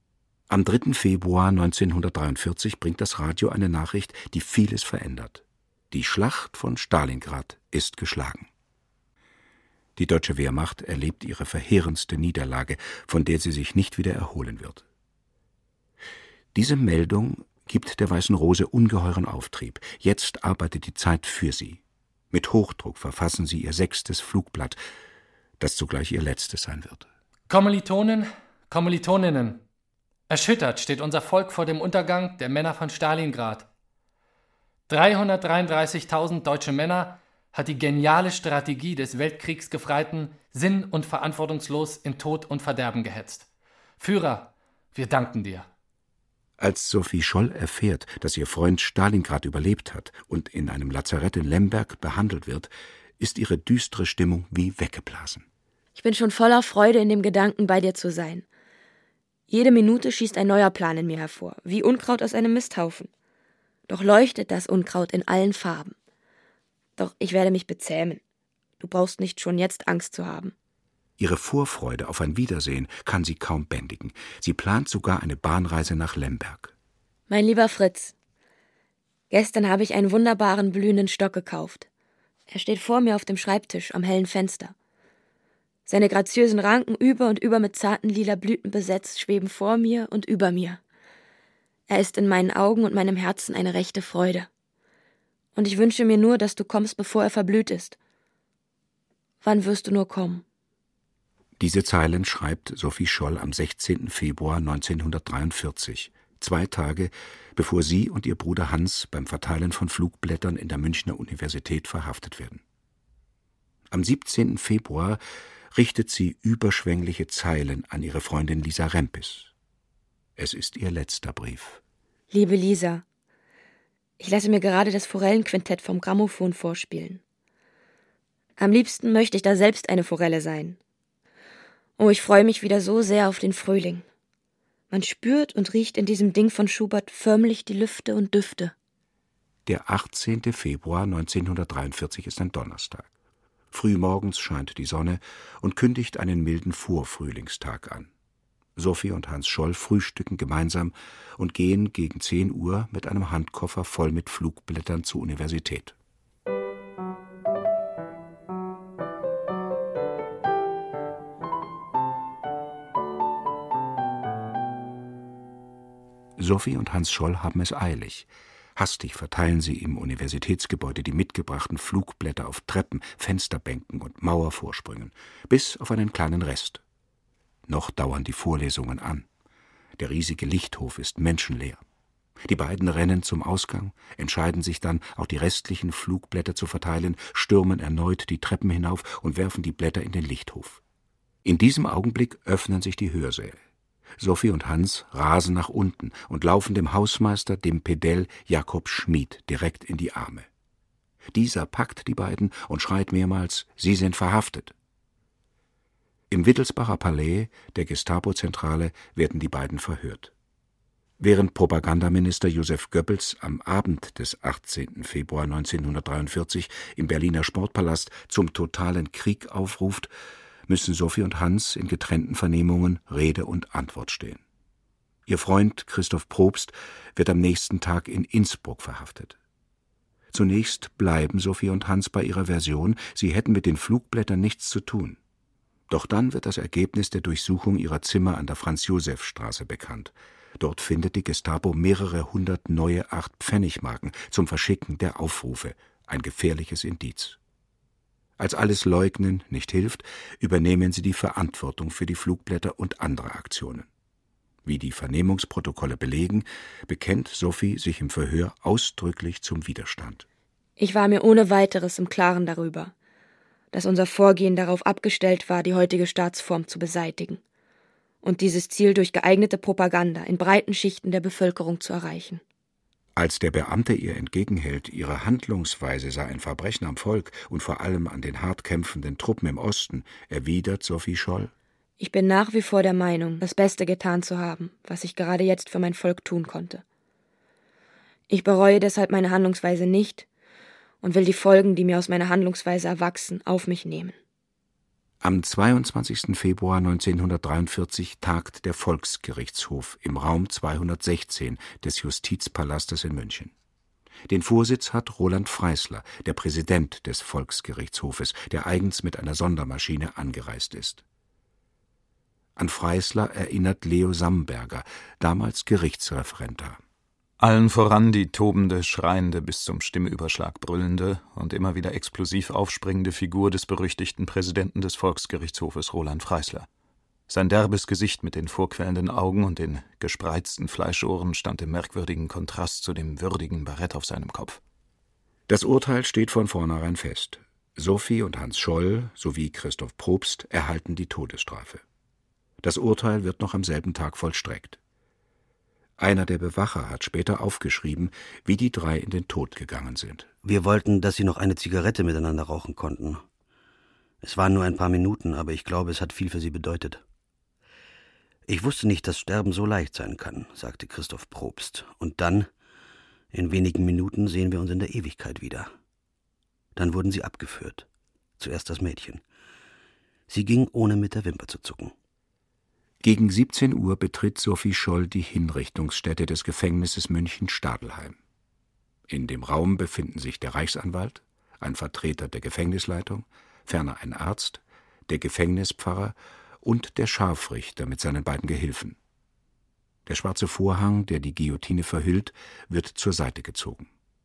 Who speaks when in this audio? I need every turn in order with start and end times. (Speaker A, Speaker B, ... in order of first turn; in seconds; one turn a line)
Speaker A: 0.5-8.5
Speaker A: 10.0-14.8
Speaker A: 16.5-24.8
Speaker A: 25.6-27.1
Speaker B: 27.5-29.6
Speaker B: 30.3-33.7
Speaker B: 34.9-43.5
Speaker B: 44.0-45.7
Speaker A: 46.6-55.5
Speaker C: 55.9-58.5
Speaker C: 59.5-63.1
Speaker C: 63.9-65.9
Speaker C: 67.0-68.2
Speaker C: 68.8-70.5
Speaker A: 71.2-76.7
Speaker C: 77.3-78.1
Speaker C: 79.3-81.9
Speaker C: 82.5-84.7
Speaker C: 85.8-90.8
Speaker C: 91.9-94.5
Speaker C: 95.5-98.0
Speaker C: 99.4-100.4
Speaker A: 101.6-112.6
Speaker A: 113.9-115.2
Speaker A: 115.7-119.5
Speaker A: 120.4-121.8
Speaker C: 122.3-123.0
Speaker C: 124.2-127.2
Speaker C: 128.6-130.8
Speaker C: 132.0-134.1
Speaker C: 134.9-138.7
Speaker A: 139.7-143.1
Speaker A: 143.7-148.1
Speaker A: 148.8-155.9
Speaker A: 166.4-176.8
Speaker A: 177.7-179.3
Speaker A: 180.0-181.8
Speaker A: 182.5-190.8
Speaker A: 191.4-193.6
Speaker A: 194.2-200.5
Speaker A: 201.3-204.7
Speaker A: 206.3-210.3
Speaker A: 211.2-220.1
Speaker A: 220.7-224.4
Speaker A: 225.3-229.4
Speaker A: 230.3-235.2
Speaker A: 235.9-247.4
Speaker A: 248.4-253.9
Speaker A: 254.6-260.2
Speaker C: 260.8-262.9
Speaker C: 263.7-267.4
Speaker C: 268.2-272.4
Speaker A: 273.1-281.5
Speaker C: 282.0-286.8
Speaker C: 288.3-290.2
Speaker C: 291.0-294.1
Speaker A: 295.2-303.5
Speaker A: 304.3-311.0
Speaker A: 312.6-316.8
Speaker D: 317.4-326.7
Speaker D: 327.3-334.6
Speaker A: 335.5-341.8
Speaker A: 342.6-344.8
Speaker A: 346.0-350.3
Speaker E: 350.4-353.2
Speaker E: 354.2-357.0
Speaker E: 358.5-362.5
Speaker E: 363.3-365.7
Speaker E: 366.8-367.9
Speaker E: 368.4-369.2
Speaker E: 370.3-371.9
Speaker A: 373.0-378.2
Speaker A: 379.1-389.0
Speaker A: 390.1-393.9